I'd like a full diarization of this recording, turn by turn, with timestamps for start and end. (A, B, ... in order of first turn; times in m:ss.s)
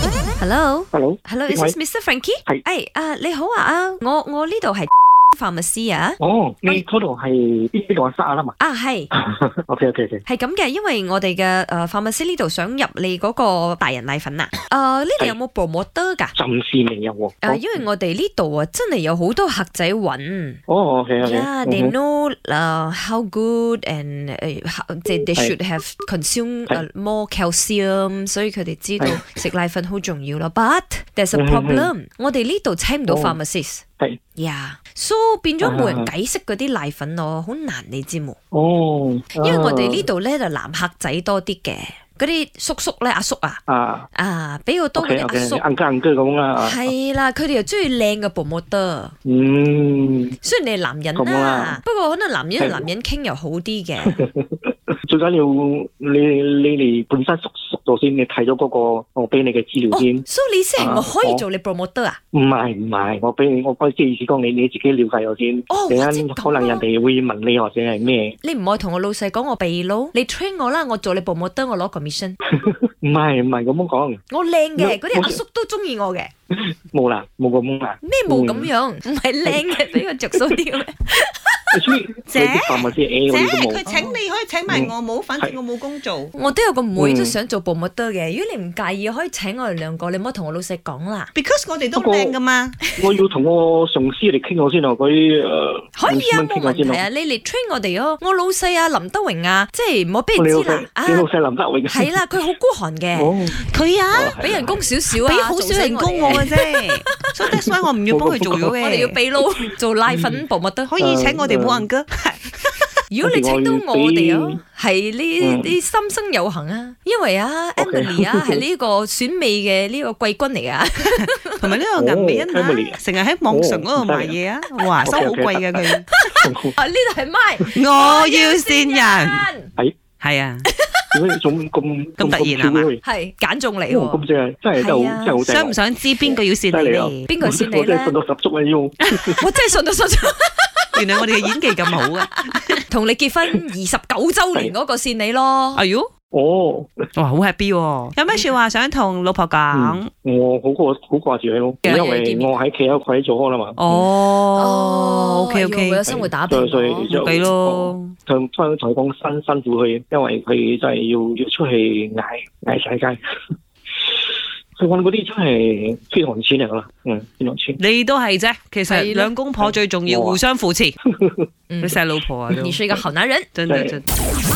0:00.4-0:06.8 A
0:00.9-0:01.8 B
0:06.2-0:08.6 B
0:08.6-0:09.1 A
0:09.1-0:10.2 B
0:10.2-0:16.3 A
0:16.3-0:17.8 B
0:17.4-0:20.6 A
0:20.7-0:21.9 B
0:21.2-0:33.8 A
0:31.3-0:31.9 B
0:33.1-0:33.4 B
0:34.4-0:38.4 A
0:35.6-0:36.1 B
0:38.5-0:40.1 B
0:39.4-0:43.6 A
0:43.7-0:44.1 B
0:44.2-0:45.6 A
0:45.0-0:46.9 B
0:46.6-0:49.1 A
0:49.2-0:50.4 B
0:50.4-0:54.2 A
0:51.2-0:51.8 B
0:52.6-0:52.9 B
0:54.0-1:00.2 B
0:59.9-1:02.2 A
1:00.8-1:01.4 B
1:02.3-1:08.4 B
1:05.7-1:06.8 A
1:08.4-1:12.4 A
1:12.5-1:14.2 B
1:14.3-1:16.3 A
1:14.8-1:15.4 B
1:16.5-1:18.7 B
1:18.0-1:21.8 A
1:19.4-1:20.6 B
1:21.7-1:23.9 B
1:22.3-1:26.3 C
1:23.8-1:24.2 A
1:24.7-1:25.6 B
1:26.3-1:31.3 A
1:27.0-1:27.4 B
1:31.3-1:32.8 C
1:31.9-1:32.4 B
1:33.0-1:37.1 B
1:36.0-1:41.3 A
1:40.4-1:42.2 B
1:41.9-1:43.4 A
1:43.2-1:44.8 B
1:43.6-1:44.4 C
1:44.4-1:47.3 A
1:45.1-1:49.2 C
1:47.6-1:48.8 B
1:48.8-1:50.9 A
1:50.1-1:50.4 B
1:50.9-1:52.9 C
1:51.0-1:51.8 B
1:53.1-2:01.8 A
1:53.2-1:54.6 B
1:55.4-1:55.7 B
1:57.8-1:58.6 B
2:01.0-2:06.1 C
2:02.0-2:03.0 B
2:03.5-2:04.4 B
2:05.0-2:06.8 B
2:06.2-2:09.7 A
2:07.7-2:09.5 C
2:10.2-2:10.7 C
2:10.7-2:11.1 A
2:11.1-2:13.0 B
2:12.2-2:12.9 C
2:13.0-2:14.2 A
2:13.9-2:19.4 B
2:14.8-2:15.4 A
2:15.4-2:17.3 C
2:17.3-2:18.2 A
2:19.4-2:25.8 A
2:20.9-2:22.8 C
2:25.8-2:26.1 C
2:26.3-2:26.9 B
2:27.2-2:30.1 C
2:29.7-2:33.8 B
2:31.8-2:32.6 A
2:33.8-2:36.0 C
2:33.9-2:37.1 A
2:36.0-2:43.2 B
2:37.1-2:38.1 C
2:44.8-2:47.8 B
2:47.8-2:51.0 C
2:48.9-2:49.3 A
2:49.6-2:50.4 B
2:51.0-2:51.5 B
2:51.7-2:53.5 A
2:51.8-2:52.8 C
2:53.6-2:54.1 C
2:53.7-2:54.0 B